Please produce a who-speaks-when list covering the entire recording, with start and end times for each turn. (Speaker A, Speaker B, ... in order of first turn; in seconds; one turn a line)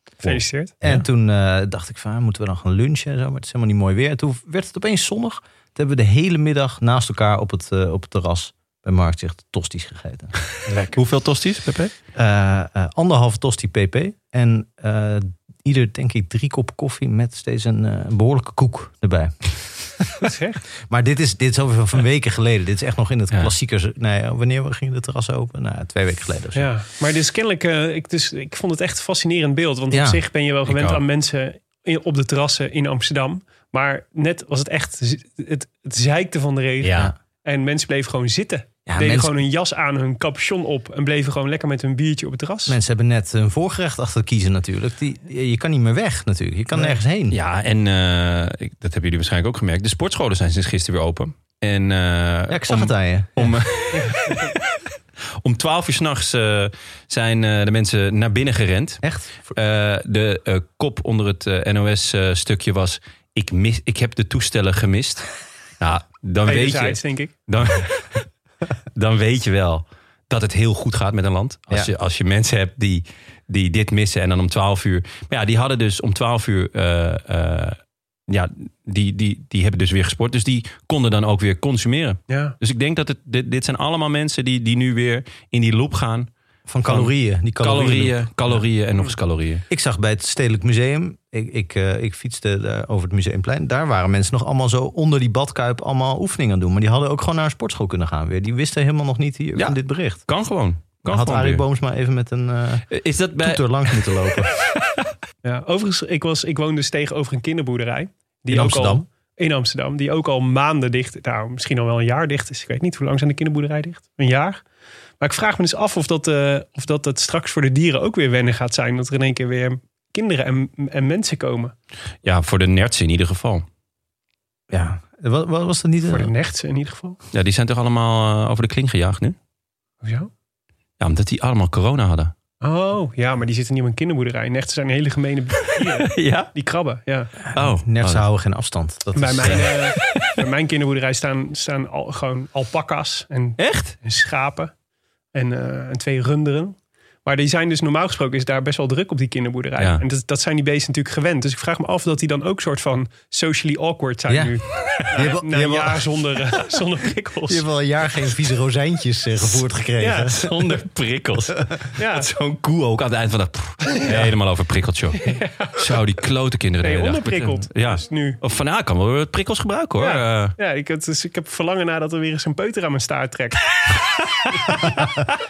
Speaker A: 0.2-0.7
Speaker B: 0.2-1.0
Speaker C: 0.8-10.4
Speaker A: 10.7-10.9
Speaker B: 10.9-11.9
Speaker C: 12.1-20.3
Speaker A: 20.2-20.6
Speaker C: 20.8-26.7
Speaker A: 26.6-42.8
Speaker C: 29.9-30.2
Speaker B: 30.7-31.0
Speaker B: 36.8-37.1
Speaker C: 38.9-39.4
Speaker C: 42.7-47.4
Speaker A: 46.7-47.0
Speaker B: 47.3-54.9
Speaker C: 52.5-53.6
Speaker A: 53.9-54.4
Speaker B: 55.4-68.2
Speaker C: 59.0-59.5
Speaker A: 66.5-67.3
Speaker B: 68.9-77.8
Speaker B: 78.3-86.3
Speaker A: 82.3-82.5
Speaker C: 86.7-88.6
Speaker B: 86.8-89.7
Speaker C: 89.7-100.3
Speaker B: 99.6-101.7
Speaker C: 101.1-104.5
Speaker B: 102.9-104.1
Speaker A: 105.4-114.6
Speaker C: 108.5-109.1
Speaker A: 115.2-121.8
Speaker B: 122.2-123.7
Speaker C: 124.7-126.3
Speaker A: 126.1-127.2
Speaker B: 127.3-129.4
Speaker A: 130.0-130.3
Speaker B: 131.0-132.3
Speaker A: 132.6-137.3
Speaker B: 135.8-136.5
Speaker C: 137.5-139.7
Speaker B: 137.5-138.2
Speaker A: 139.2-144.8
Speaker B: 139.4-140.3
Speaker B: 143.6-144.0
Speaker A: 145.3-157.7
Speaker C: 154.3-156.0
Speaker C: 157.5-160.8
Speaker A: 160.0-160.3
Speaker B: 160.4-170.6
Speaker A: 162.0-162.2
Speaker A: 165.3-165.8
Speaker A: 166.8-168.4
Speaker A: 170.0-173.7
Speaker A: 174.5-175.1